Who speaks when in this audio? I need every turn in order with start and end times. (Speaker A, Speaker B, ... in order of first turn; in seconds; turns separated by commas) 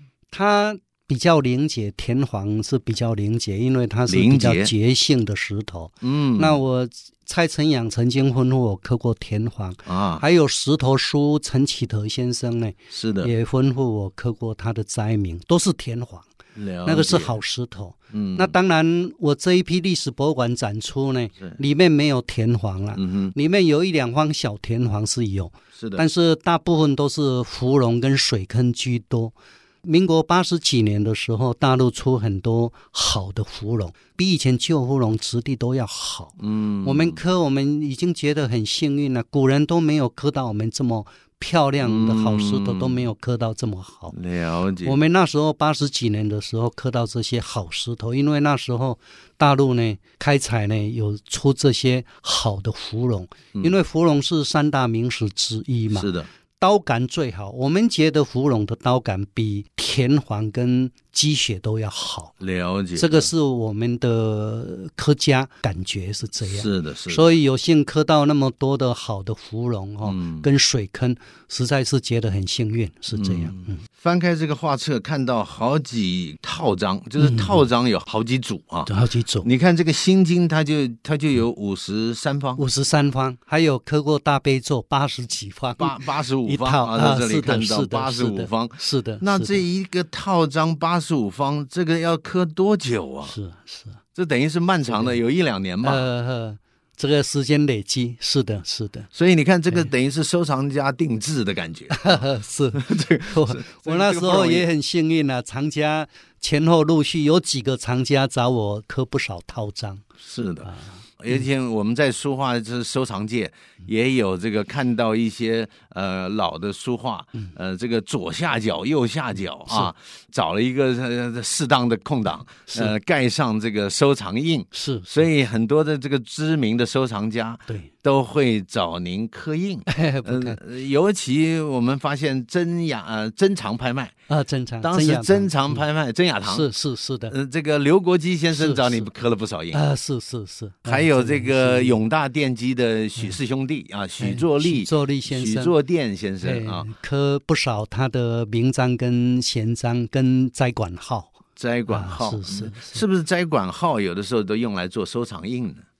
Speaker A: 0.3-16.3, Speaker B: 4.1-4.7, Speaker B: 6.0-6.6, Speaker B: 9.8-10.2, Speaker B: 12.9-13.3, Speaker B: 16.6-17.4, Speaker A: 16.8-44.1, Speaker B: 18.1-18.5, Speaker B: 22.9-23.3, Speaker B: 25.7-26.0, Speaker B: 36.4-37.2, Speaker B: 41.8-43.0, Speaker B: 44.1-45.0, Speaker A: 44.8-62.3, Speaker B: 55.9-56.3, Speaker B: 62.4-63.3, Speaker A: 63.0-73.8, Speaker B: 66.5-67.3, Speaker B: 70.0-70.5, Speaker B: 73.1-78.9, Speaker A: 77.2-77.6, Speaker A: 78.9-79.5, Speaker B: 79.4-82.6, Speaker A: 82.6-89.6, Speaker B: 85.8-93.3, Speaker A: 93.2-94.0, Speaker B: 94.1-96.0, Speaker A: 94.9-95.2, Speaker A: 95.8-99.1, Speaker B: 99.1-102.2, Speaker A: 101.9-110.0, Speaker B: 102.7-104.7, Speaker B: 110.2-134.1, Speaker A: 110.6-111.0, Speaker A: 124.7-125.1, Speaker A: 129.9-130.6, Speaker A: 134.3-135.8, Speaker B: 134.8-136.7, Speaker A: 136.4-137.3, Speaker B: 137.3-139.8, Speaker A: 138.5-139.1, Speaker A: 139.7-142.0, Speaker B: 140.8-146.9, Speaker A: 144.2-145.7, Speaker A: 146.4-151.4, Speaker B: 151.6-155.8, Speaker A: 151.9-153.0